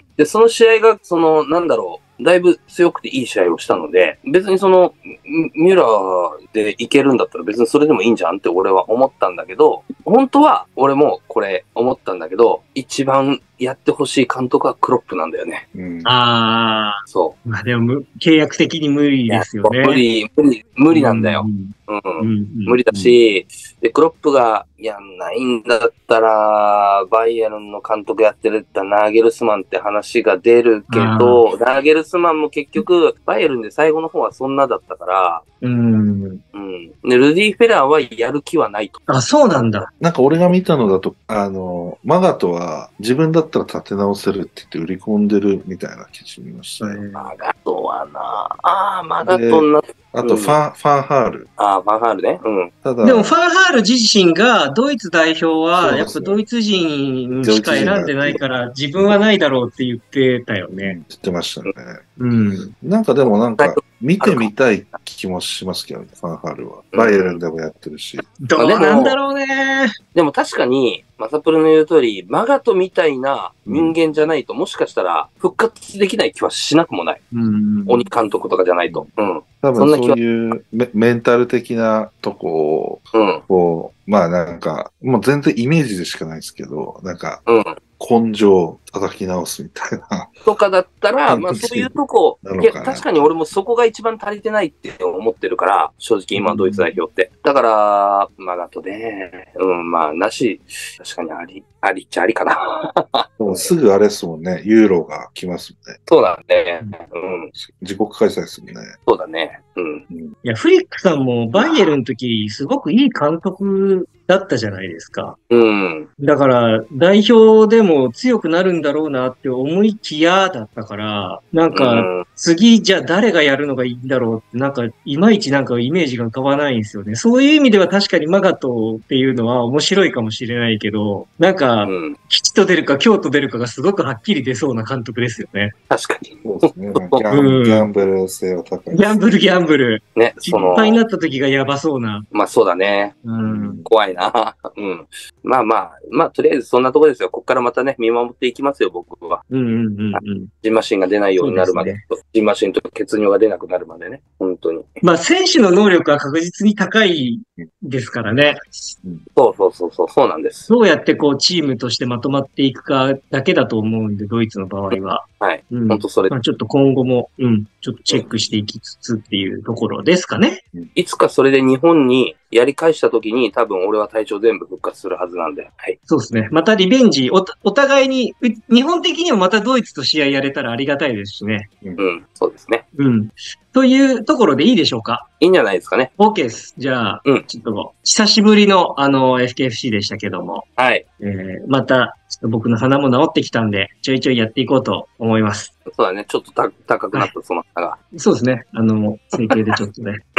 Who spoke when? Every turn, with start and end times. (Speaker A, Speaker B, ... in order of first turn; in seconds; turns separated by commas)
Speaker A: 0.2-15.6, Speaker B: 15.7-16.1, Speaker C: 16.0-20.0, Speaker A: 17.1-17.4, Speaker A: 19.3-35.4, Speaker C: 20.9-23.2, Speaker C: 30.9-31.4, Speaker C: 35.6-36.4, Speaker A: 36.5-39.0, Speaker C: 39.1-39.9, Speaker B: 40.0-47.0, Speaker C: 46.8-47.3, Speaker A: 47.1-50.6, Speaker B: 49.2-51.5, Speaker A: 51.6-52.7, Speaker B: 52.8-53.4, Speaker C: 53.0-61.0, Speaker B: 55.8-56.4, Speaker B: 57.4-58.4, Speaker B: 60.8-62.0, Speaker C: 62.2-62.7, Speaker B: 62.8-68.3, Speaker A: 63.6-64.5, Speaker A: 66.9-67.4, Speaker C: 68.4-69.9, Speaker A: 68.5-69.2, Speaker A: 70.1-77.2, Speaker B: 73.7-74.0, Speaker C: 77.3-78.1, Speaker A: 77.8-80.2, Speaker B: 79.6-87.4, Speaker A: 83.1-83.4, Speaker A: 87.5-87.8, Speaker B: 88.0-90.3, Speaker A: 90.5-103.7, Speaker B: 91.3-93.3, Speaker C: 96.3-96.9, Speaker B: 103.4-106.0, Speaker A: 106.1-107.5, Speaker B: 107.5-109.0, Speaker A: 109.1-110.1, Speaker B: 110.1-110.3, Speaker C: 110.4-115.4, Speaker A: 111.5-112.0, Speaker A: 115.5-116.1, Speaker C: 116.2-135.8, Speaker A: 121.7-122.2, Speaker A: 131.8-132.2, Speaker A: 135.9-137.3, Speaker B: 136.4-139.3, Speaker C: 137.3-137.9, Speaker C: 138.9-142.3, Speaker A: 140.1-141.0, Speaker B: 140.5-140.8, Speaker A: 142.3-143.2, Speaker C: 143.2-143.8, Speaker B: 143.4-143.9, Speaker A: 143.8-149.4, Speaker C: 149.5-150.5, Speaker A: 150.1-155.0, Speaker C: 151.4-152.0, Speaker C: 155.0-158.9, Speaker A: 159.3-160.7, Speaker C: 160.7-170.6, Speaker A: 164.9-166.3, Speaker A: 170.9-176.0, Speaker C: 176.1-181.7, Speaker A: 182.0-182.8, Speaker C: 182.9-185.3, Speaker A: 185.4-186.1, Speaker C: 186.2-190.7, Speaker A: 190.8-191.0, Speaker C: 191.2-195.7, Speaker A: 195.9-198.0, Speaker C: 198.1-200.2, Speaker A: 199.4-199.8